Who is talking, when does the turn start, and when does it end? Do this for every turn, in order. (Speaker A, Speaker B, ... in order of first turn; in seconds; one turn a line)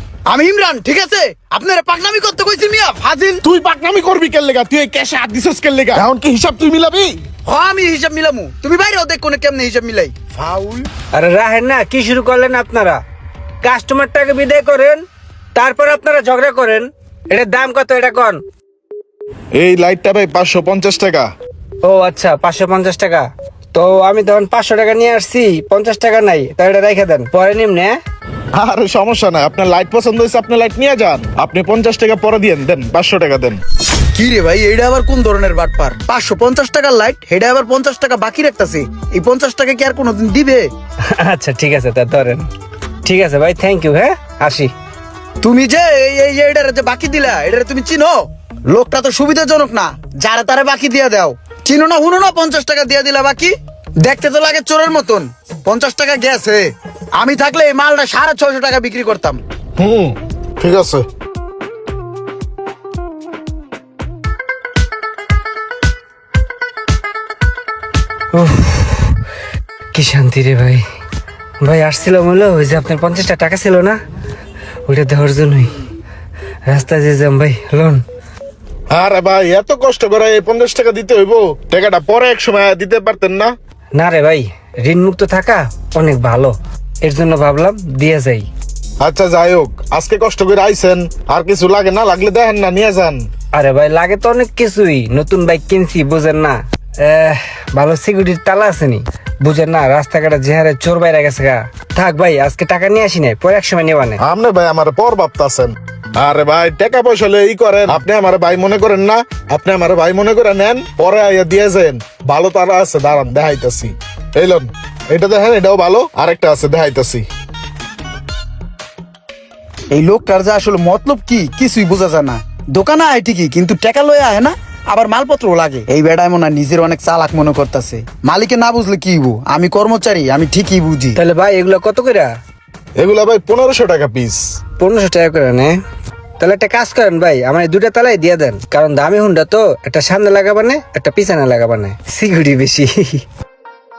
Speaker A: 0.3-3.4
Speaker B: 3.4-7.2
Speaker A: 7.5-10.9
Speaker C: 11.1-13.0
Speaker C: 13.6-15.0
Speaker C: 15.6-18.4
Speaker B: 19.5-21.3
Speaker C: 21.8-28.0
Speaker B: 28.5-33.6
Speaker A: 34.1-40.7
Speaker C: 41.1-42.5
Speaker C: 43.0-44.7
Speaker A: 45.4-59.4
Speaker B: 59.8-61.0
Speaker C: 68.3-69.2
Speaker C: 69.9-70.8
Speaker C: 71.6-74.0
Speaker C: 74.9-75.7
Speaker C: 76.7-78.0
Speaker B: 78.9-83.5
Speaker C: 84.0-88.5
Speaker B: 89.0-93.2
Speaker C: 93.5-104.2
Speaker B: 104.2-117.2
Speaker A: 119.9-131.2
Speaker C: 131.2-132.3
Speaker B: 133.0-134.4
Speaker C: 134.8-135.7
Speaker C: 136.4-143.2